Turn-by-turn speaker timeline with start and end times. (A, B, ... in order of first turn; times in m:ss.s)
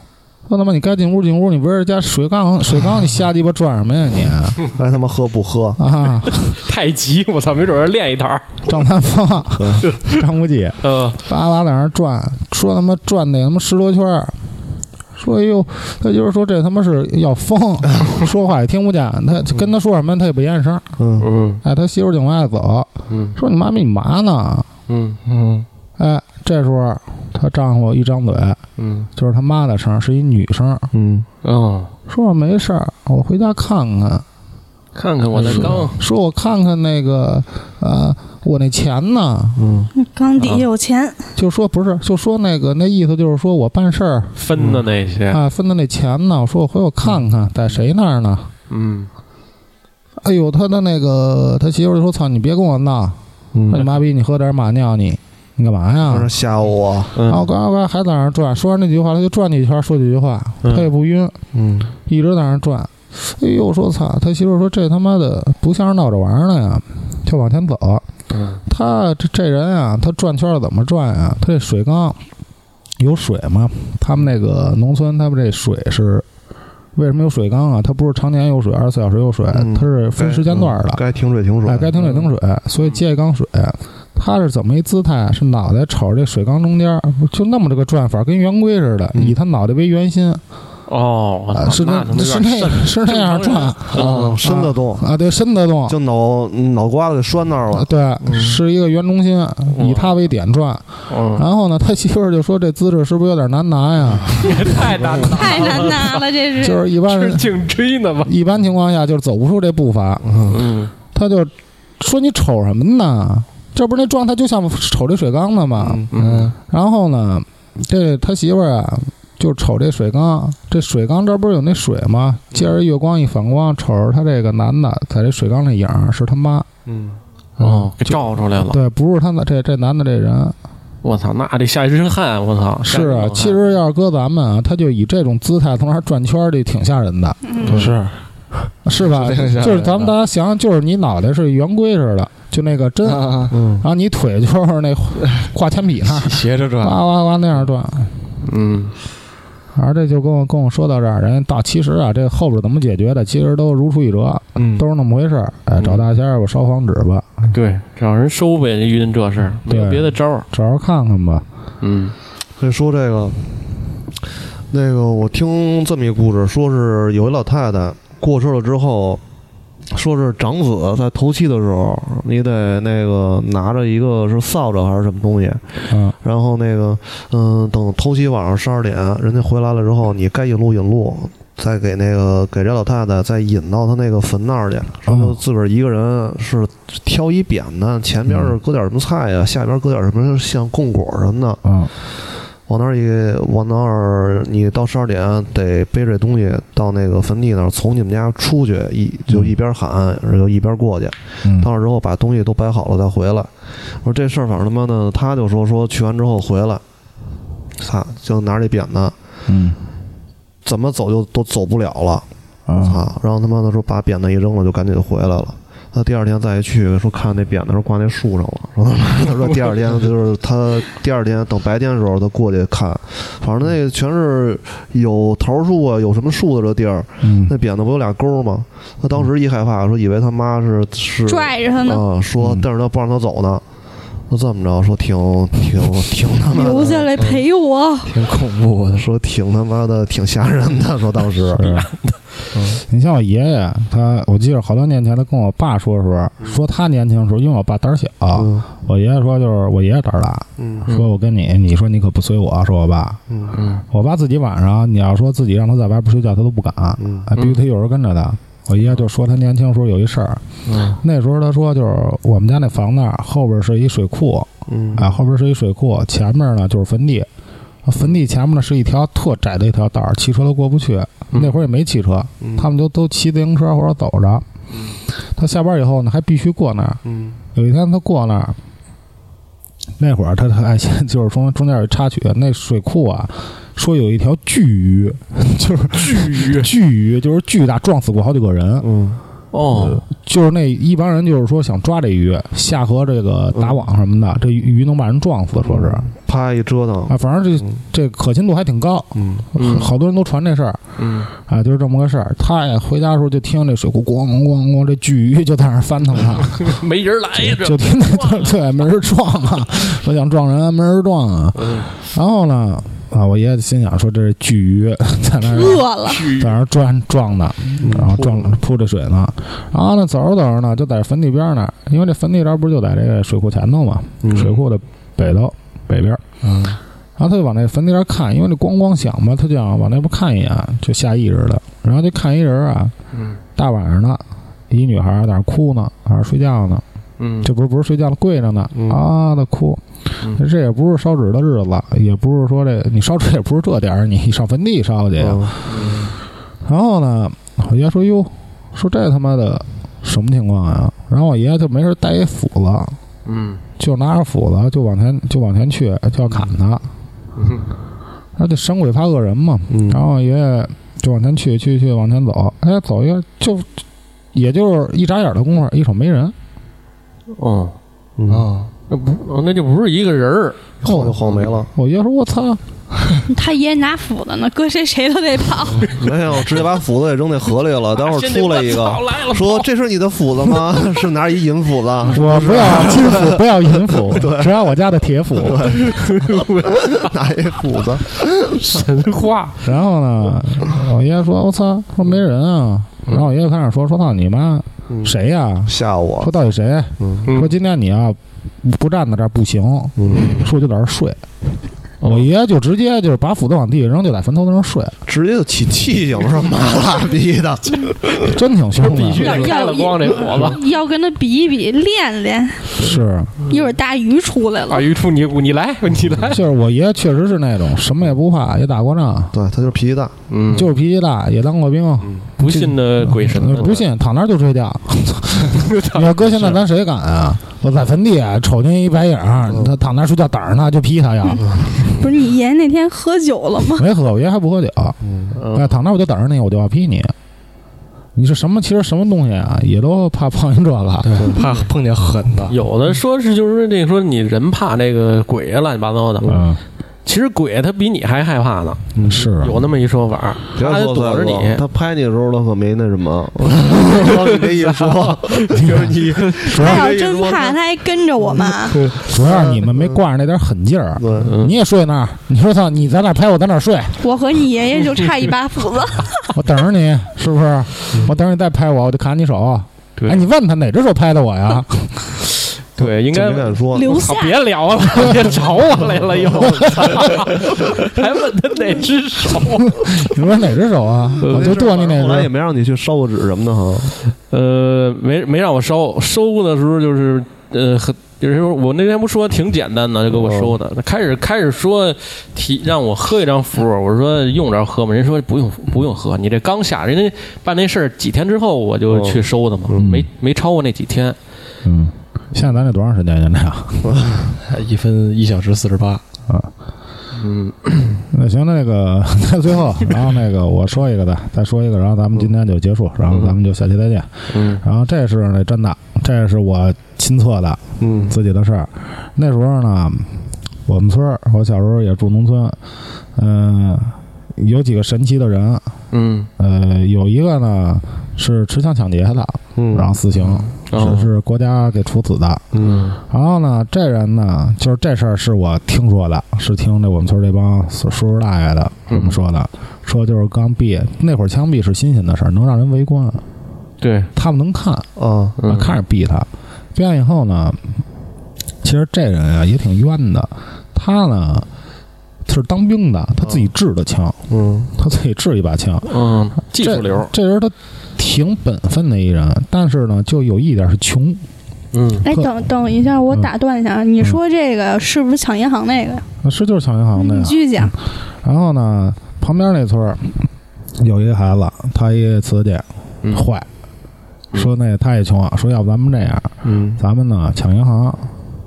0:00.5-0:04.6 A
0:04.8-0:05.8 B
0:05.8-0:06.6 A
0:06.4-0:08.6 C
0:08.7-0:14.4 A
0:09.5-0:09.8 B
0:09.8-0:10.2 C
0:10.8-0:11.2 C
0:15.1-0:20.9 A
0:21.0-0:21.2 B
0:21.2-0:21.6 C
0:21.6-0:24.7 A
0:23.1-0:23.3 C
0:24.9-0:25.2 C
0:25.3-0:25.6 D
0:26.0-0:28.6 A
0:28.8-0:29.1 C
0:29.2-0:30.9 A
0:30.9-0:31.3 B
0:31.4-0:31.9 C
0:32.1-0:34.2 A
0:34.9-0:36.0 C
0:35.4-0:39.6 A
0:35.4-0:35.9 B
0:39.6-0:39.9 B
0:39.9-0:41.2 E
0:40.4-0:40.6 C
0:41.4-0:44.4 A
0:44.4-0:45.4 C
0:45.3-0:48.5 A
0:48.7-0:49.1 C
0:50.2-0:53.2 A
0:53.5-0:53.8 B
0:53.7-0:56.3 A
0:53.7-0:54.0 C
0:56.1-0:57.2 B
0:57.2-0:57.4 C
0:57.2-1:01.4 A
1:00.6-1:00.9 C
1:01.5-1:01.9 B
1:02.0-1:08.0 A
1:08.3-1:08.6 C
1:08.7-1:12.2 A
1:13.0-1:16.2 A
1:16.9-1:21.0 A
1:19.5-1:22.0 B
1:21.6-1:30.4 A
1:30.9-1:34.2 C
1:31.5-1:35.9 A
1:33.9-1:35.1 B
1:33.9-1:34.4 D
1:35.9-1:38.6 B
1:37.7-1:44.6 A
1:39.7-1:40.1 C
1:41.1-1:41.4 C
1:44.3-1:46.3 C
1:45.0-1:45.5 B
1:45.2-1:46.8 E
1:46.6-1:47.5 A
1:47.0-1:48.3 C
1:48.2-1:50.4 A
1:50.2-1:50.6 B
1:50.5-1:50.9 C
1:51.1-1:56.1 A
1:55.8-1:56.1 B
1:56.1-1:56.5 C
1:56.1-1:56.5 D
1:56.7-2:06.7 A
2:06.8-2:07.2 B
2:07.6-2:08.8 C
2:07.6-2:10.6 A
2:11.0-2:13.6 C
2:12.8-2:18.1 A
2:17.7-2:17.9 D
2:17.7-2:17.9 B
2:18.8-2:28.1 A
2:18.9-2:20.1 D
2:23.0-2:23.5 D
2:23.5-2:23.8 B
2:26.1-2:27.0 D
2:28.4-2:28.9 C
2:29.7-2:37.5 A
2:35.8-2:36.0 C
2:37.5-2:40.5 C
2:39.6-2:41.4 A
2:41.8-2:42.1 C
2:42.6-2:43.4 B
2:44.7-2:49.2 B
2:49.9-3:26.8 B
2:55.9-2:56.1 A
3:05.1-3:05.4 A
3:08.3-3:08.5 A
3:11.6-3:11.9 A
3:21.4-3:21.7 A
3:27.8-3:29.2 B
3:29.5-3:29.8 A
3:30.6-3:53.6 B
3:32.7-3:33.0 A
3:47.2-3:47.5 A
3:51.3-3:52.0 E
3:52.4-3:52.6 A
3:54.3-3:57.4 B
3:56.5-3:58.1 E
3:58.0-3:59.1 D
3:59.0-4:01.8 B
4:01.5-4:01.9 A
4:02.9-4:13.2 A
4:08.3-4:08.6 B
4:10.6-4:10.8 B
4:13.3-4:13.5 B
4:13.5-4:13.8 C
4:13.9-4:27.3 A
4:17.0-4:17.3 B
4:17.4-4:17.6 C
4:20.6-4:21.0 C
4:24.7-4:25.1 B
4:27.8-4:34.4 A
4:32.4-4:32.7 B
4:34.7-4:35.0 C
4:35.4-4:37.0 A
4:37.0-4:37.4 B
4:37.5-4:38.6 A
4:40.0-4:48.9 A
4:45.9-4:46.7 C
4:48.8-4:49.2 B
4:49.5-4:50.0 C
4:49.7-4:56.1 A
4:53.5-4:53.8 B
4:55.6-4:57.6 B
4:57.1-5:00.8 A
4:59.1-4:59.4 B
4:59.6-4:59.9 C
5:01.0-5:01.3 C
5:01.3-5:06.8 A
5:06.6-5:08.6 C
5:07.4-5:26.2 A
5:11.6-5:11.9 C
5:15.4-5:16.2 E
5:16.0-5:16.5 C
5:17.8-5:18.6 B
5:24.2-5:24.5 B
5:26.4-5:26.8 D
5:27.2-5:32.9 A
5:33.1-5:33.4 C
5:33.6-5:36.8 A
5:37.2-5:37.5 C
5:37.4-5:45.9 A
5:38.7-5:39.0 B
5:45.2-5:45.5 B
5:45.6-5:46.1 C
5:46.6-5:53.0 A
5:53.2-5:53.6 C
5:53.8-5:56.8 A
5:57.4-5:57.6 C
5:58.4-6:03.7 A
5:59.7-6:00.0 B
6:04.3-6:06.3 A
6:07.3-6:07.8 C
6:08.2-6:08.5 B
6:08.3-6:08.7 D
6:08.9-6:10.7 C
6:10.8-6:11.7 B
6:10.8-6:11.2 A
6:11.7-6:12.6 A
6:13.2-6:15.9 E
6:15.9-6:24.6 B
6:18.0-6:19.7 C
6:22.1-6:25.6 A
6:25.4-6:28.6 B
6:25.7-6:27.1 C
6:28.6-6:29.6 C
6:29.6-6:41.2 A
6:34.9-6:35.1 B
6:35.6-6:36.3 B
6:37.0-6:37.3 B
6:37.2-6:37.5 C
6:40.0-6:40.3 B
6:42.0-6:45.0 A
6:45.0-6:48.2 B
6:48.2-6:49.4 A
6:48.8-6:50.6 C
6:49.2-6:52.6 E
6:50.3-6:50.5 B
6:52.8-6:53.3 A
6:53.5-6:54.9 E
6:54.7-6:56.4 C
6:56.2-6:59.3 A
6:59.3-7:00.1 B
7:00.3-7:00.7 C
7:00.5-7:11.9 A
7:02.4-7:03.8 C
7:05.5-7:06.6 C
7:09.5-7:09.7 B
7:11.9-7:13.8 E
7:13.7-7:15.0 A
7:15.0-7:15.3 B
7:15.4-7:15.8 C
7:15.5-7:17.1 A
7:18.1-7:21.2 A
7:21.0-7:22.6 D
7:21.2-7:21.6 B
7:22.5-7:26.3 C
7:26.3-7:26.6 A
7:27.0-7:31.6 C
7:29.0-7:29.6 A
7:30.6-7:37.6 B
7:34.2-7:36.2 C
7:35.5-7:36.9 A
7:36.5-7:38.8 E
7:38.6-7:39.9 B
7:39.0-7:44.0 A
7:41.0-7:41.3 B
7:41.2-7:41.6 C
7:44.0-7:46.3 E
7:46.3-7:52.1 A
7:50.0-7:50.2 C
7:52.8-8:00.1 C
7:52.8-7:53.9 B
7:53.7-7:54.4 E
7:56.4-7:56.9 A
7:59.8-8:02.3 A
8:01.2-8:01.5 C
8:01.2-8:04.0 B
8:04.3-8:21.2 C
8:10.1-8:10.5 B
8:18.9-8:19.9 B
8:19.8-8:20.1 A
8:21.6-8:24.0 A
8:23.8-8:24.2 B
8:24.4-8:26.0 D
8:27.1-8:28.0 C
8:28.1-8:42.6 A
8:34.3-8:34.6 C
8:37.8-8:38.1 B
8:43.1-8:45.7 A
8:45.9-8:46.3 C
8:46.4-8:52.4 A
8:49.6-8:49.9 B
8:50.6-8:51.0 C
8:52.5-8:52.9 B
8:53.1-9:03.2 A
8:58.9-8:59.2 C
9:03.8-9:04.1 C
9:04.1-9:04.9 A
9:05.0-9:05.4 B
9:05.4-9:05.7 C
9:05.4-9:07.8 A
9:08.6-9:11.5 A
9:12.2-9:14.2 A
9:13.2-9:13.5 B
9:14.3-9:14.7 B
9:14.7-9:21.2 A
9:15.8-9:17.1 C
9:21.7-9:22.0 C
9:22.0-9:26.0 E
9:22.0-9:22.4 A
9:26.2-9:33.5 A
9:26.9-9:27.7 E
9:34.3-9:38.1 A
9:36.4-9:36.8 B